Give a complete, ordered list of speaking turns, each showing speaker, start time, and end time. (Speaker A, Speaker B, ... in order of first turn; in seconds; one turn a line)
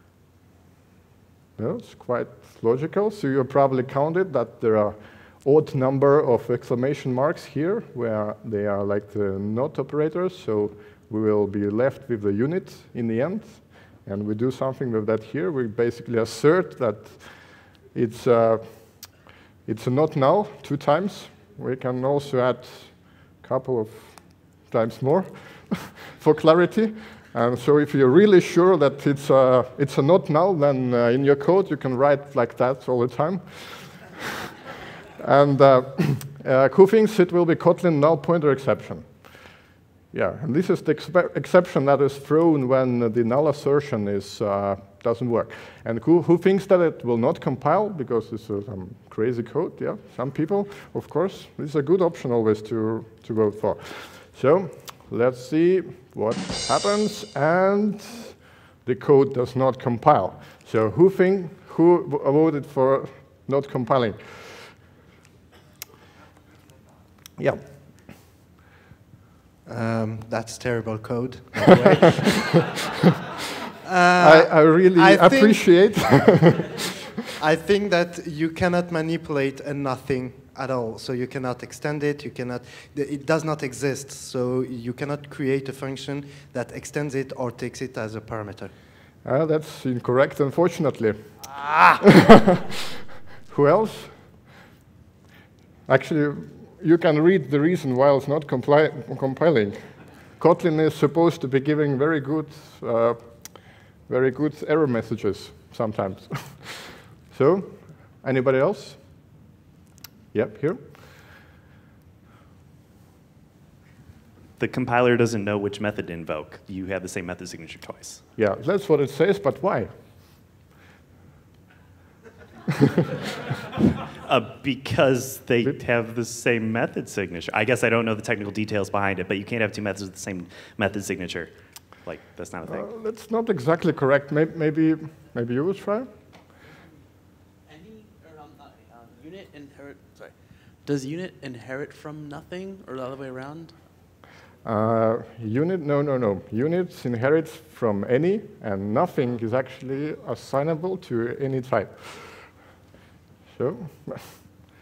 Speaker A: 1.6-34.2
Speaker A: 35.2-39.3
Speaker A: 40.1-64.7
Speaker A: 67.4-67.6
Speaker B: 69.7-72.7
Speaker B: 73.8-76.2
Speaker A: 74.2-76.8
Speaker B: 77.4-88.7
Speaker A: 89.2-91.4
Speaker A: 92.0-92.6
Speaker A: 93.5-94.2
Speaker A: 95.9-109.2
Speaker A: 110.3-110.9
Speaker C: 114.6-118.2
Speaker A: 118.3-119.9
Speaker C: 124.2-132.9
Speaker A: 132.6-136.1
Speaker D: 137.7-143.8
Speaker A: 144.6-152.6
Speaker A: 153.5-154.4